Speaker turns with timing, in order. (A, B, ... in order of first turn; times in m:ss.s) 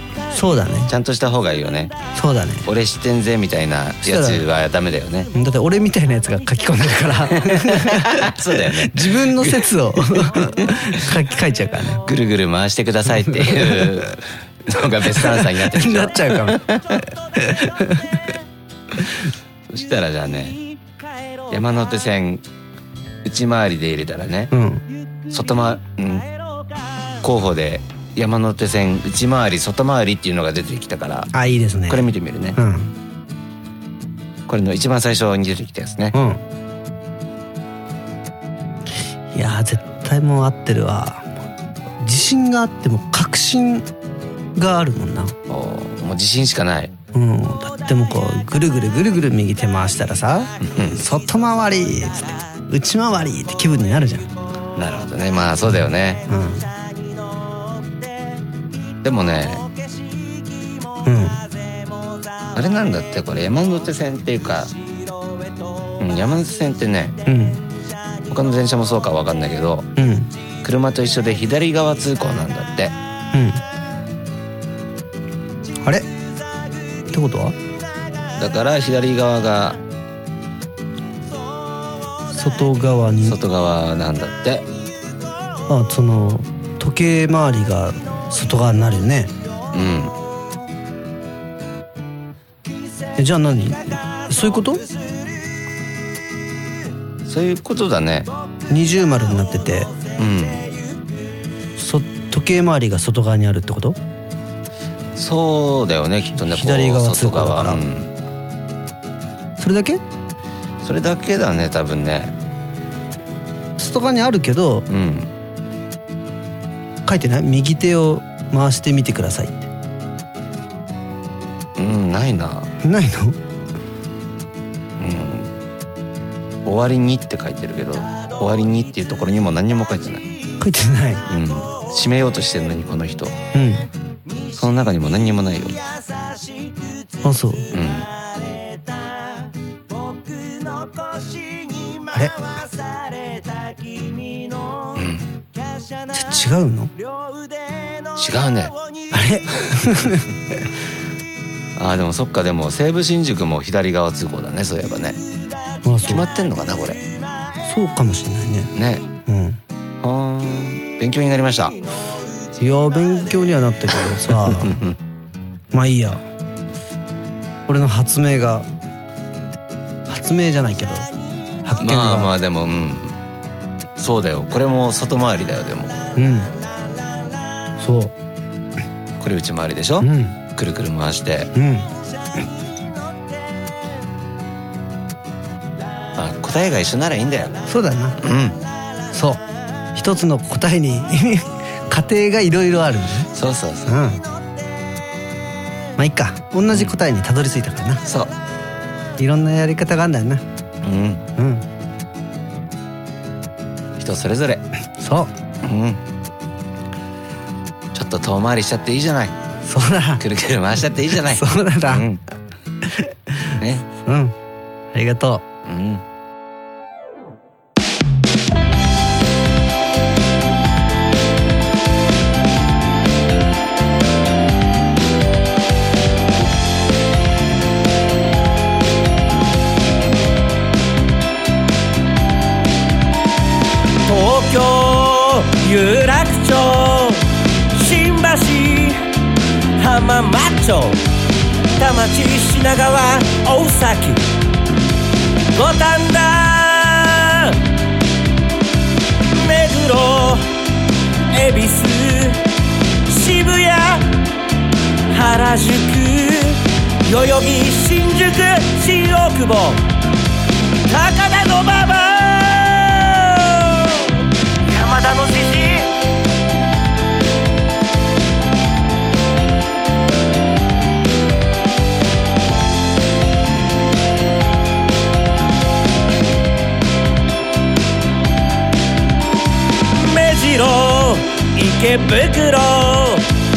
0:00.3-0:00.9 A
0:00.9-0:01.9 B
0:02.1-0:02.7 A
0:02.6-0:05.3 B
0:04.0-0:04.4 A
0:05.3-0:12.0 A
0:07.4-0:10.7 B
0:12.0-0:17.0 B
0:13.3-0:14.0 A
0:15.2-0:16.6 A
0:17.3-0:18.2 A
0:19.7-0:20.6 B
0:21.5-0:22.4 B
0:23.2-0:24.5 B
0:24.5-0:24.8 A
0:25.3-0:26.2 B
0:27.2-0:31.3 B
0:31.3-0:32.9 A
0:31.9-0:32.6 B
0:34.5-0:36.1 B
0:36.1-0:36.4 A
0:39.3-0:41.3 A
0:42.0-0:43.9 A
0:44.5-0:45.3 A
0:45.5-0:46.9 B
0:47.1-0:54.3 A
0:50.6-0:51.0 B
0:54.8-0:56.2 B
0:56.3-0:56.7 A
0:59.0-0:59.7 B
1:01.0-1:01.4 A
1:02.5-1:04.7 B
1:06.0-1:07.2 B
1:07.2-1:07.6 A
1:08.3-1:09.9 B
1:10.0-1:10.3 A
1:10.6-1:12.9 B
1:13.3-1:13.6 A
1:17.1-1:17.6 A
1:18.4-1:19.8 B
1:22.3-1:23.4 A
1:23.2-1:24.6 B
1:25.7-1:29.3 A
1:29.7-1:30.1 B
1:33.2-1:34.8 A
1:37.2-1:38.3 B
1:38.7-1:39.9 A
1:40.2-1:40.6 B
1:41.8-1:44.0 A
1:45.2-1:48.1 B
1:46.3-1:47.8 A
1:49.6-1:50.0 A
1:50.8-1:52.3 B
1:53.8-1:54.9 A
1:54.9-1:55.3 B
1:57.0-1:59.7 A
2:01.8-2:02.7 B
2:02.8-2:03.4 A
2:05.0-2:05.5 B
2:06.6-2:10.3 B
2:10.6-2:11.2 A
2:11.3-2:13.3 B
2:13.5-2:13.9 A
2:14.5-2:15.8 B
2:17.2-2:17.7 A
2:17.7-2:18.1 B
2:24.9-2:25.2 B
2:26.1-2:26.9 A
2:28.2-2:28.7 B
2:29.1-2:30.5 A
2:31.8-2:35.2 B
2:35.8-2:36.2 A
2:36.1-2:37.0 B
2:37.6-2:38.7 A
2:38.7-2:39.0 B
2:39.3-2:39.6 A
2:40.0-2:41.8 B
2:42.6-2:44.8 A
2:44.5-2:44.9 B
2:45.7-2:46.2 A
2:47.7-2:48.7 A
2:50.1-2:51.1 A
2:51.6-2:52.3 A
2:51.8-2:53.1 B
2:54.0-2:56.0 B
2:56.2-2:56.5 A
2:57.8-2:58.1 A
2:59.2-3:01.5 B
3:00.0-3:00.3 A
3:01.5-3:01.9 A
3:06.2-3:07.6 B
3:07.7-3:08.2 A
3:08.2-3:08.6 B
3:09.1-3:09.4 A
3:09.9-3:13.3 A
3:13.3-3:13.9 B
3:13.8-3:14.2 A
3:16.0-3:18.0 A
3:18.0-3:18.3 B
3:19.2-3:20.4 A
3:20.8-3:21.2 B
3:21.4-3:21.6 A
3:24.0-3:24.6 B
3:25.0-3:25.3 A
3:25.6-3:26.0 B
3:27.9-3:29.3 B
3:29.6-3:30.2 A
3:30.2-3:32.2 B
3:31.3-3:32.0 A
3:32.8-3:34.3 A
3:33.6-3:33.8 B
3:34.9-3:35.4 A
3:35.6-3:36.0 B
3:54.0-3:57.2 C
3:57.7-3:59.0 C
3:59.8-4:01.0 C
4:01.8-4:04.2 C
4:05.5-4:07.5 C
4:09.3-4:10.4 C
4:11.3-4:12.4 C
4:13.1-4:14.0 C
4:15.1-4:19.8 C
4:20.9-4:24.0 C
4:24.7-4:25.9 C
4:40.0-4:43.2 C